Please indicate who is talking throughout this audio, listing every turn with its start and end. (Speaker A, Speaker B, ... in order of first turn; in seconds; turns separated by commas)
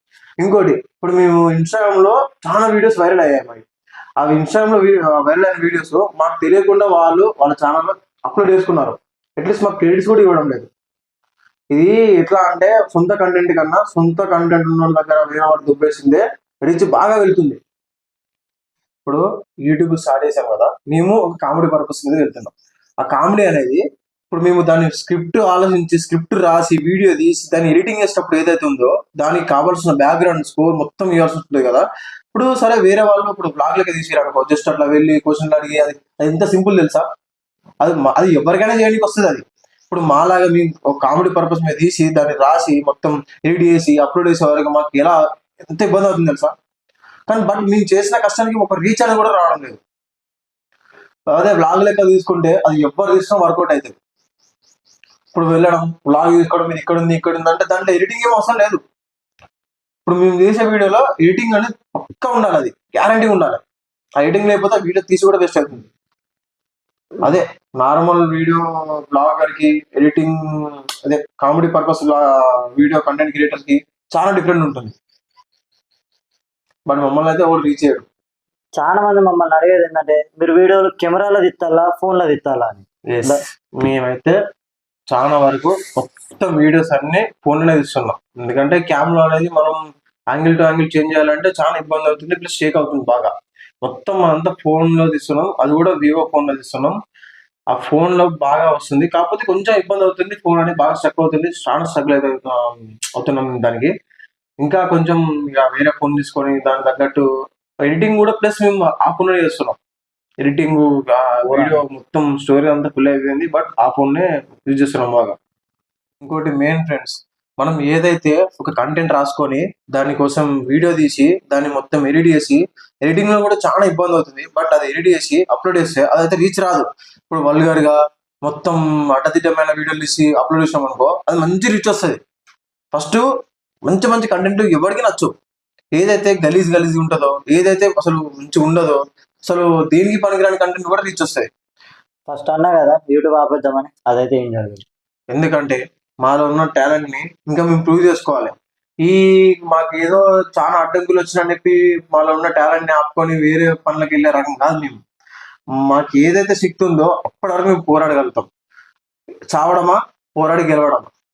Speaker A: 0.4-3.6, Speaker A: 4.2-10.7, Speaker A: 11.7-17.6, Speaker A: 19.1-37.0, Speaker A: 37.8-46.5, Speaker A: 47.3-49.8, Speaker A: 51.3-54.0, Speaker A: 55.3-58.8, Speaker A: 60.1-63.6, Speaker A: 64.2-65.9, Speaker A: 67.2-70.4, Speaker A: 71.0-72.2, Speaker A: 72.8-74.9, Speaker A: 76.9-78.0, Speaker B: 78.8-83.4, Speaker A: 83.1-84.4, Speaker A: 85.1-89.8, Speaker A: 90.3-93.3, Speaker A: 93.8-97.0, Speaker A: 97.7-103.9, Speaker A: 104.6-107.2, Speaker A: 107.9-109.8, Speaker A: 110.4-115.3, Speaker B: 111.5-111.8, Speaker A: 116.2-132.2, Speaker A: 132.9-133.2, Speaker A: 133.9-135.3, Speaker A: 135.9-141.5, Speaker B: 142.3-144.8, Speaker A: 145.3-155.0, Speaker A: 155.9-158.5, Speaker A: 159.5-161.1